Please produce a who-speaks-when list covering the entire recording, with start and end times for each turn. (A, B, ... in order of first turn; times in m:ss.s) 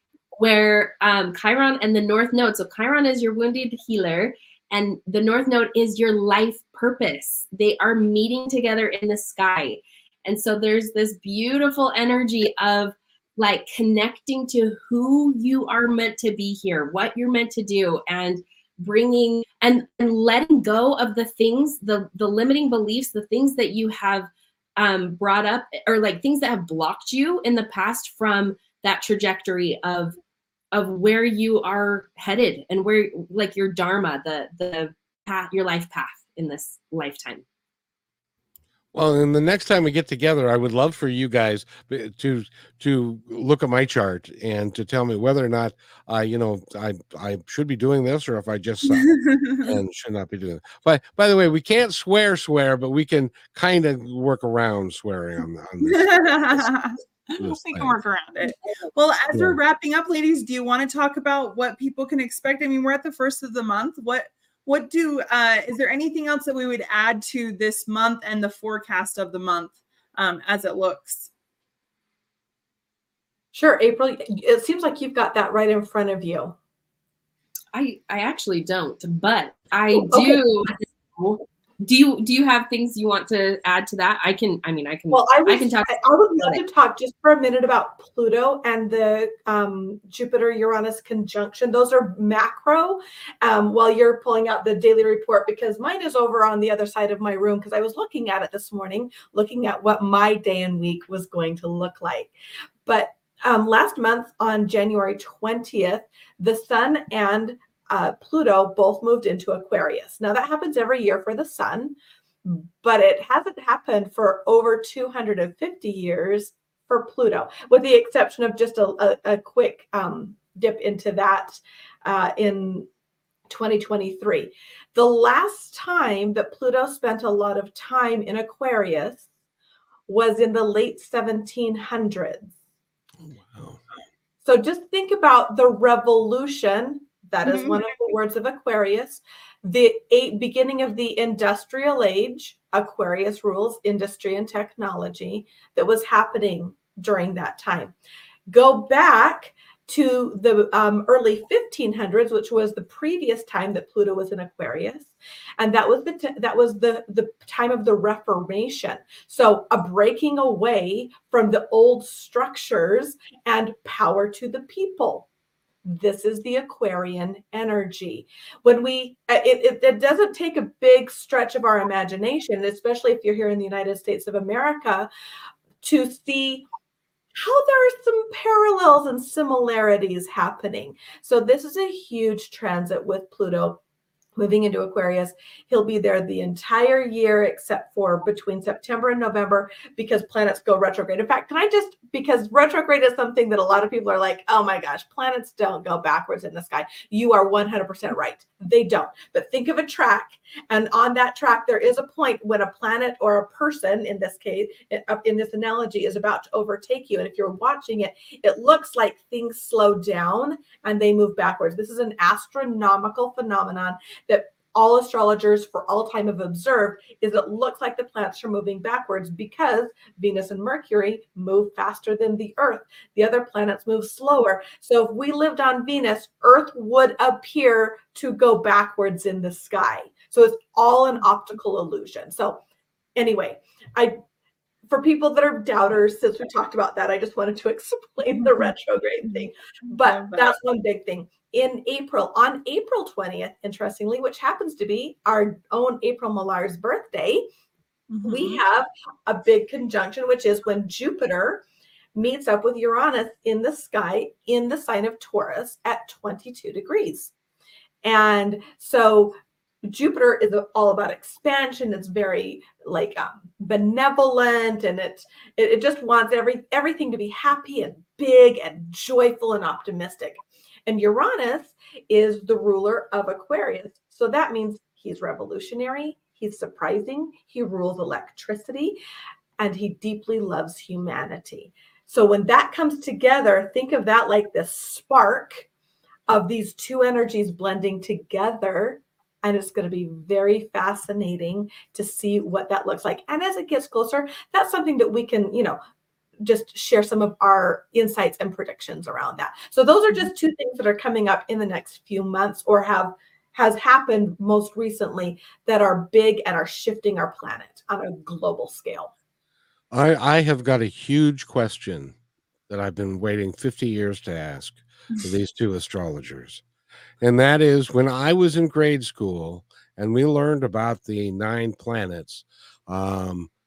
0:00.4-0:30.2 A
0:30.7-0:37.4 A
0:38.9-0:56.7 B
0:48.9-0:49.7 C
0:55.8-1:11.3 C
0:57.4-0:58.0 B
0:59.3-0:59.6 B
1:13.5-1:16.6 D
1:17.7-1:26.6 A
1:19.9-1:20.4 D
1:25.1-1:42.3 D
1:42.8-2:02.9 D
2:03.5-2:09.2 D
2:10.1-2:12.5 D
2:13.2-2:13.8 B
2:14.4-2:27.9 D
2:17.4-2:17.8 C
2:28.5-2:45.3 D
2:45.8-2:55.1 D
2:55.8-2:56.6 D
2:57.3-3:03.8 D
3:04.4-3:52.6 D
3:53.2-3:54.2 D
3:54.9-4:07.4 D
3:58.3-3:58.7 C
3:59.2-4:00.5 C
4:08.1-4:08.6 C
4:08.2-4:11.6 D
4:12.1-4:17.3 D
4:18.0-4:39.0 D
4:39.6-4:45.6 D
4:46.3-4:55.8 D
4:56.4-5:09.1 D
5:09.9-5:12.1 B
5:12.7-5:16.6 B
5:17.2-5:23.5 B